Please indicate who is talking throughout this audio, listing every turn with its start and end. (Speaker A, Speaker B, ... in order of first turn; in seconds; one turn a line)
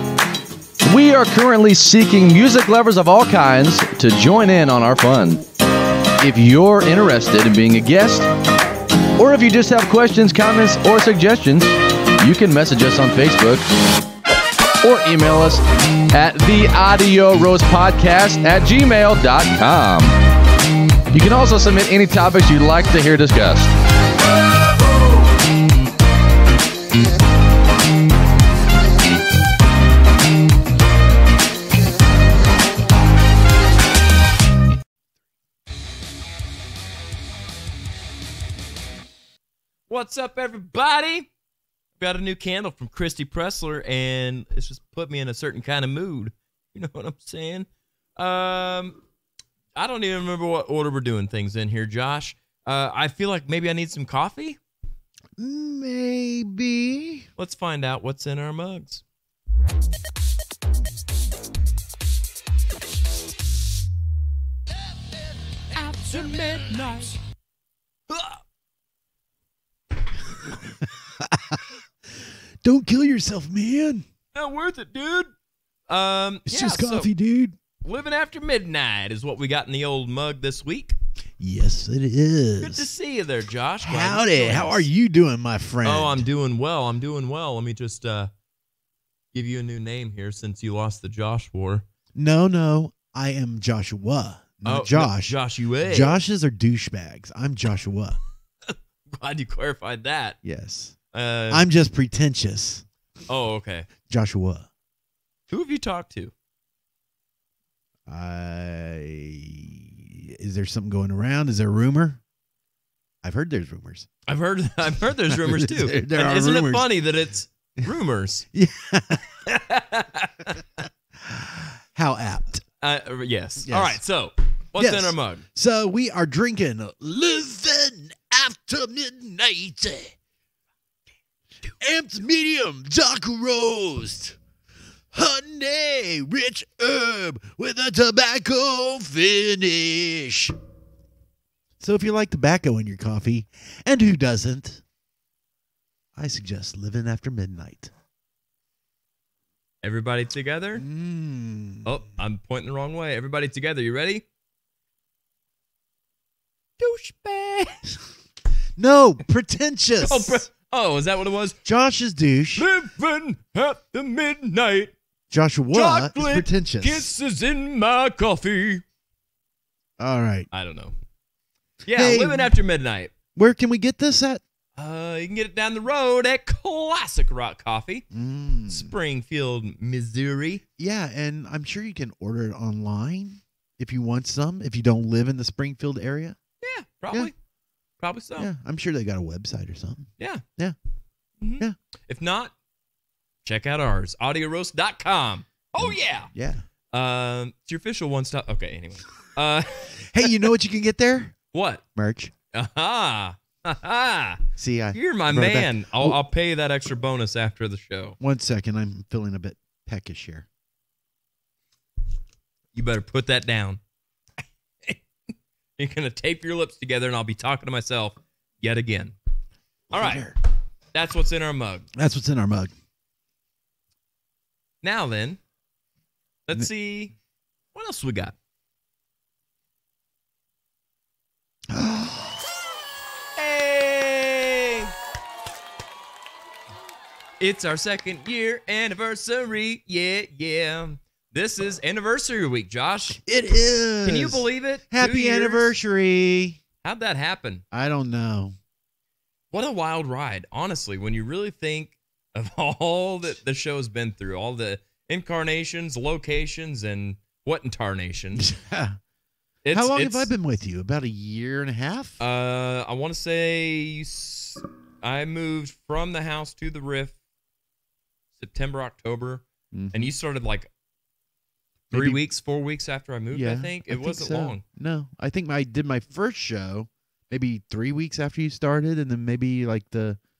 Speaker A: 0.8-5.4
Speaker A: 6.2-8.3
Speaker A: 9.2-13.7
Speaker A: 14.8-20.2
Speaker A: 21.1-23.7
Speaker B: 39.9-41.3
Speaker B: 42.0-49.0
Speaker B: 49.7-54.6
Speaker C: 55.4-57.2
Speaker B: 57.4-59.0
Speaker B: 65.7-67.2
Speaker B: 68.1-68.4
Speaker C: 71.2-71.6
Speaker C: 72.6-74.0
Speaker B: 74.3-75.3
Speaker B: 75.9-77.1
Speaker C: 76.5-77.6
Speaker B: 77.8-80.9
Speaker C: 81.4-82.9
Speaker B: 82.6-84.9
Speaker C: 83.8-86.2
Speaker B: 85.8-88.3
Speaker B: 89.3-91.8
Speaker C: 92.1-98.2
Speaker B: 94.6-96.2
Speaker B: 98.7-100.4
Speaker C: 100.4-101.0
Speaker B: 101.1-101.6
Speaker C: 101.5-102.8
Speaker B: 103.3-103.9
Speaker C: 104.1-104.7
Speaker B: 105.5-106.3
Speaker C: 108.1-112.2
Speaker C: 113.2-114.1
Speaker B: 114.3-118.5
Speaker C: 115.3-116.9
Speaker C: 118.5-119.2
Speaker B: 119.5-120.5
Speaker C: 121.2-122.6
Speaker B: 122.8-125.4
Speaker C: 123.6-124.0
Speaker C: 124.8-130.2
Speaker C: 131.8-134.3
Speaker C: 135.1-140.5
Speaker C: 141.8-144.8
Speaker C: 146.1-147.9
Speaker B: 149.8-150.8
Speaker C: 150.8-151.9
Speaker B: 151.8-154.2
Speaker B: 156.8-157.8
Speaker C: 158.8-160.4
Speaker B: 160.0-161.6
Speaker C: 161.6-162.7
Speaker B: 162.6-164.9
Speaker C: 165.3-167.1
Speaker B: 165.7-168.8
Speaker C: 170.0-170.5
Speaker B: 170.5-170.9
Speaker B: 171.8-173.1
Speaker C: 171.9-172.5
Speaker C: 173.3-174.4
Speaker B: 174.8-178.0
Speaker C: 178.1-178.9
Speaker B: 178.7-180.6
Speaker C: 180.8-186.4
Speaker B: 186.6-187.3
Speaker B: 188.0-188.5
Speaker C: 188.3-190.8
Speaker B: 191.4-192.5
Speaker B: 193.4-196.3
Speaker C: 195.8-196.6
Speaker B: 196.9-200.0
Speaker C: 200.0-201.3
Speaker B: 201.5-201.8
Speaker C: 201.9-202.3
Speaker B: 202.5-208.2
Speaker C: 204.6-206.2
Speaker C: 208.2-210.4
Speaker B: 212.7-213.8
Speaker B: 215.8-219.1
Speaker C: 219.9-220.3
Speaker B: 219.9-220.3
Speaker B: 220.9-221.8
Speaker C: 221.9-222.7
Speaker B: 224.8-225.4
Speaker B: 226.5-227.1
Speaker B: 227.7-228.3
Speaker C: 231.7-232.4
Speaker B: 233.4-234.9
Speaker B: 237.4-243.2
Speaker C: 243.2-246.6
Speaker B: 244.0-245.8
Speaker B: 246.8-247.6
Speaker C: 247.7-248.6
Speaker B: 249.5-258.5
Speaker C: 258.4-259.0
Speaker B: 259.6-260.3
Speaker C: 259.7-262.2
Speaker B: 262.2-267.1
Speaker B: 268.4-270.7
Speaker C: 269.7-270.1
Speaker C: 271.9-272.2
Speaker B: 271.9-274.6
Speaker C: 273.3-280.2